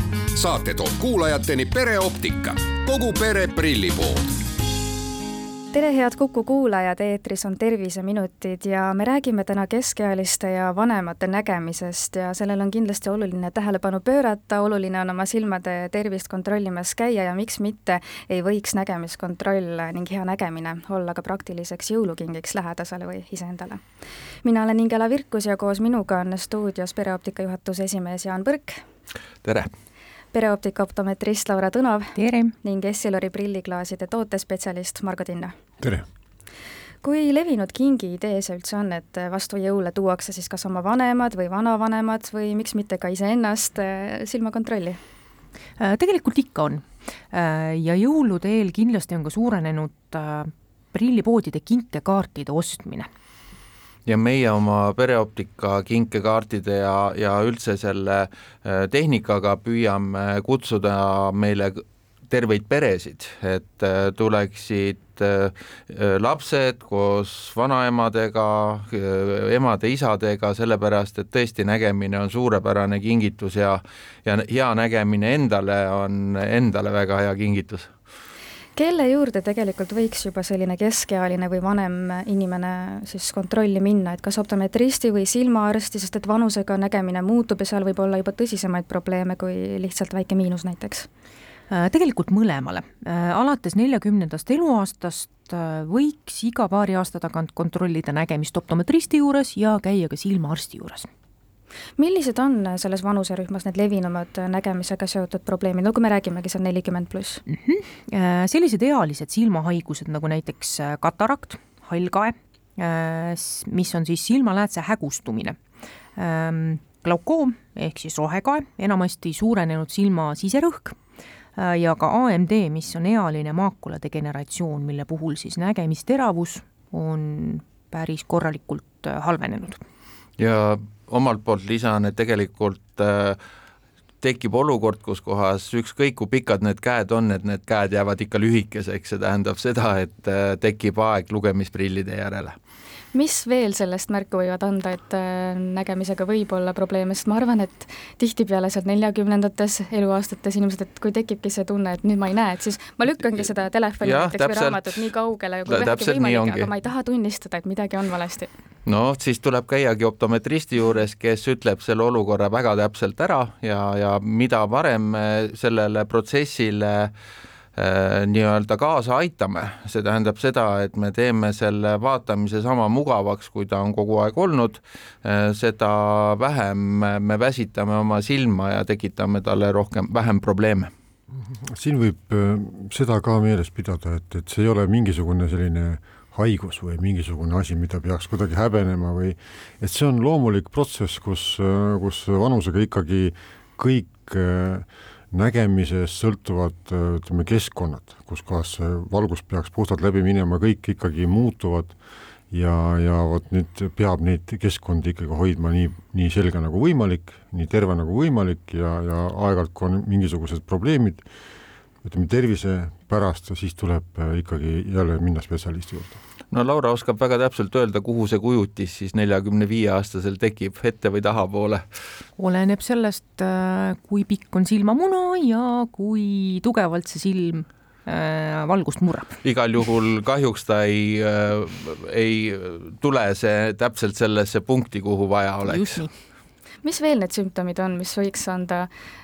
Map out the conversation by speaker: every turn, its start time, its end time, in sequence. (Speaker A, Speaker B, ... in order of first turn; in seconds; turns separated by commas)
Speaker A: 0.3-4.3, Speaker B: 5.7-23.8, Speaker B: 24.4-28.8, Speaker C: 29.4-29.7, Speaker B: 30.3-35.5, Speaker D: 32.2-32.5, Speaker B: 37.0-45.0, Speaker D: 45.8-53.1, Speaker C: 54.0-77.9, Speaker B: 78.8-91.1, Speaker D: 91.7-101.1, Speaker B: 102.0-107.4, Speaker D: 107.5-115.6, Speaker D: 116.2-121.0, Speaker D: 121.6-129.8, Speaker C: 130.4-133.4, Speaker C: 134.2-142.6, Speaker B: 143.1-158.5, Speaker C: 154.0-155.1, Speaker C: 155.7-156.7, Speaker C: 158.8-167.1, Speaker C: 167.8-180.9, Speaker E: 181.6-202.0, Speaker E: 202.5-211.2, Speaker E: 212.0-216.2, Speaker C: 216.5-221.8, Speaker D: 222.4-229.4, Speaker C: 229.4-236.0, Speaker D: 235.7-236.1, Speaker B: 236.8-238.9